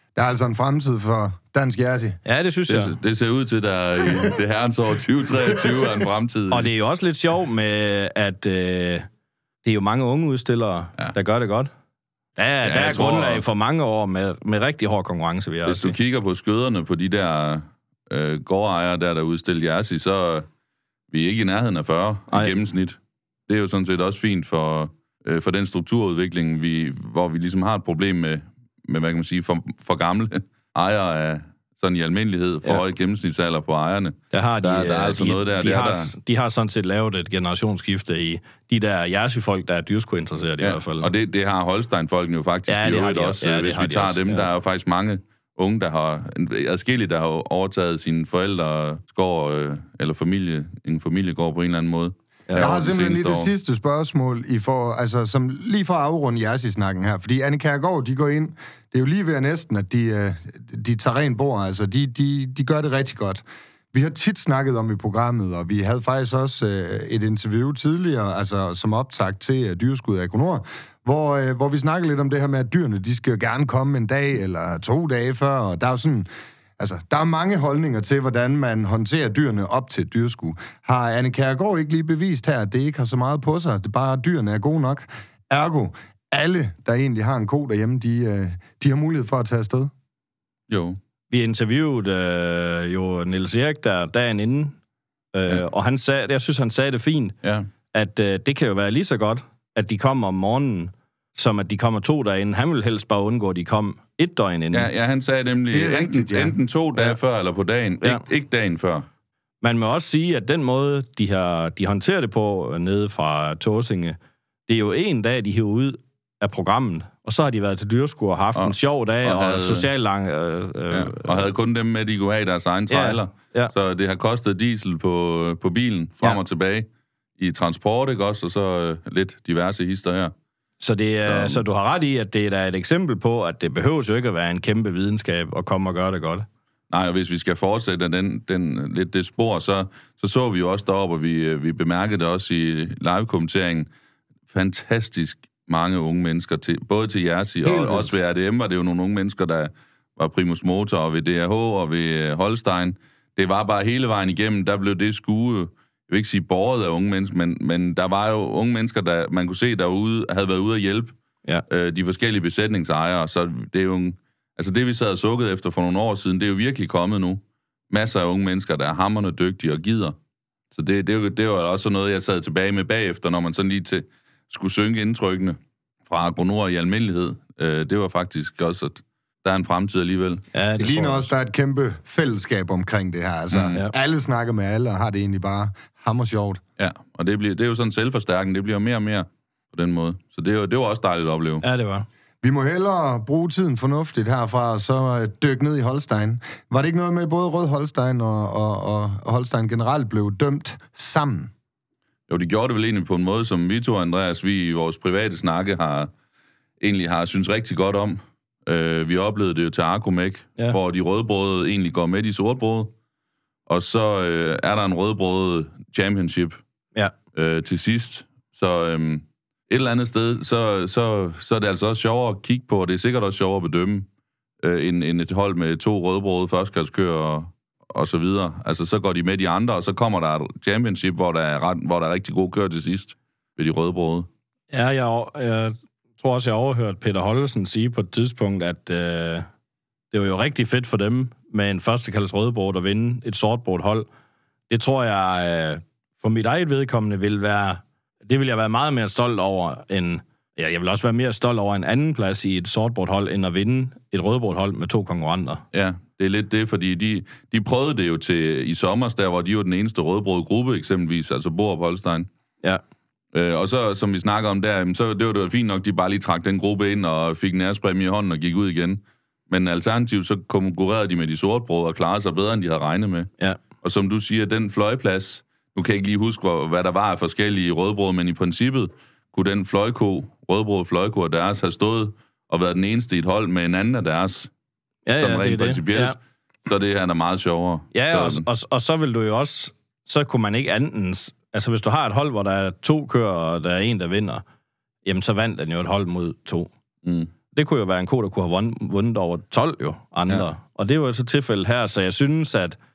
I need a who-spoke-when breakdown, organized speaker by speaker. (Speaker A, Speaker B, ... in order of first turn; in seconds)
Speaker A: 0.1-2.2, 52.6-76.3, 76.8-89.9, 105.7-106.6, 147.7-148.1, 180.8-186.6, 192.4-201.5
Speaker B: 2.2-3.0, 6.5-9.1, 9.6-11.7, 12.4-15.9, 34.3-41.1, 42.7-44.5, 91.3-94.8, 95.3-97.3, 97.9-104.9, 109.6-121.5, 122.9-123.7, 130.8-136.5, 180.5-181.3, 191.6-192.1, 234.7-239.5, 240.1-244.1, 244.7-255.6, 285.1-286.1, 287.9-294.4, 295.0-296.7, 297.5-302.8
Speaker C: 2.7-6.7, 12.6-13.4, 15.6-20.4, 21.1-36.1, 40.6-53.5, 90.7-91.0, 97.4-97.7, 104.7-109.1, 118.5-119.9, 120.9-130.3, 131.2-131.6, 136.9-143.9, 144.5-161.1, 161.7-170.2, 170.7-180.4, 183.5-183.8, 186.8-191.6, 202.3-206.1, 206.8-212.9, 213.7-216.6, 217.3-224.1, 224.6-234.3, 255.7-262.3, 263.3-273.3, 273.8-284.5, 285.2-288.4, 297.0-297.3